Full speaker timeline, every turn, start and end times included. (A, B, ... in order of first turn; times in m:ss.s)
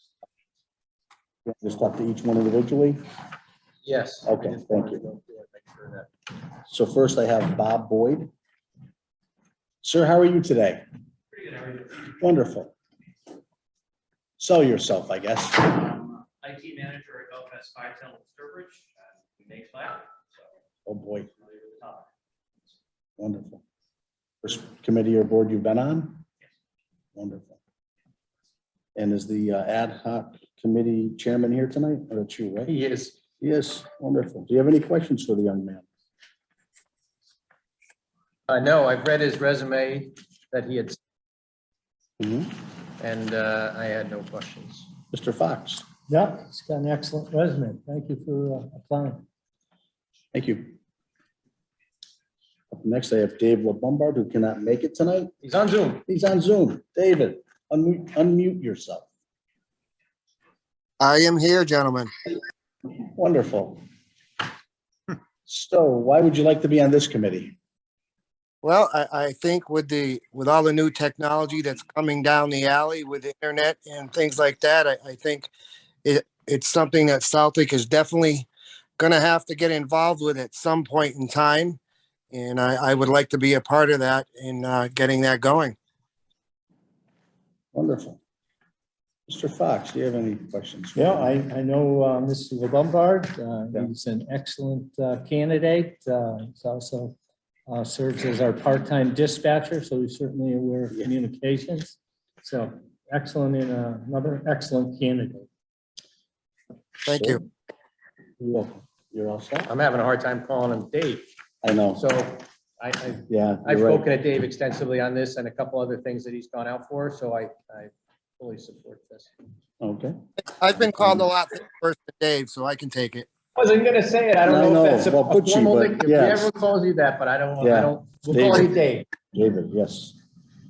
0:01.5-0:03.0 A
0:03.8-0:06.1 B
0:04.2-0:05.0 A
0:06.7-0:08.3 A
0:09.8-0:10.8 A
0:12.1-0:12.8 A
0:14.4-0:15.9 A
0:16.4-0:18.8 C
0:19.5-0:20.0 C
0:20.9-0:21.3 A
0:23.2-0:23.6 A
0:24.4-0:26.2 A
0:27.2-0:27.6 A
0:29.0-0:32.8 A
0:32.7-0:33.2 B
0:33.4-0:35.9 A
0:38.5-0:41.0 B
0:42.2-0:42.5 A
0:43.0-0:44.9 B
0:45.1-0:45.8 A
0:46.1-0:49.2 D
0:50.3-0:50.8 A
0:52.7-0:55.3 A
0:55.4-0:56.0 B
0:56.1-0:59.1 A
1:01.0-1:02.1 E
1:03.1-1:03.8 A
1:05.5-1:07.6 A
1:08.6-1:15.5 E
1:16.0-1:21.8 E
1:22.3-1:25.8 E
1:27.7-1:28.2 A
1:29.3-1:31.3 A
1:31.0-1:37.2 D
1:37.7-1:45.5 D
1:47.0-1:47.4 E
1:47.2-1:47.4 A
1:48.4-1:49.7 A
1:49.7-1:51.3 B
1:51.6-1:52.0 A
1:51.9-1:59.3 B
1:53.3-1:54.1 A
1:59.8-2:01.3 A
2:00.5-2:03.3 E
2:03.6-2:09.1 B
2:04.4-2:06.5 A
2:07.6-2:08.8 A
2:09.3-2:10.2 A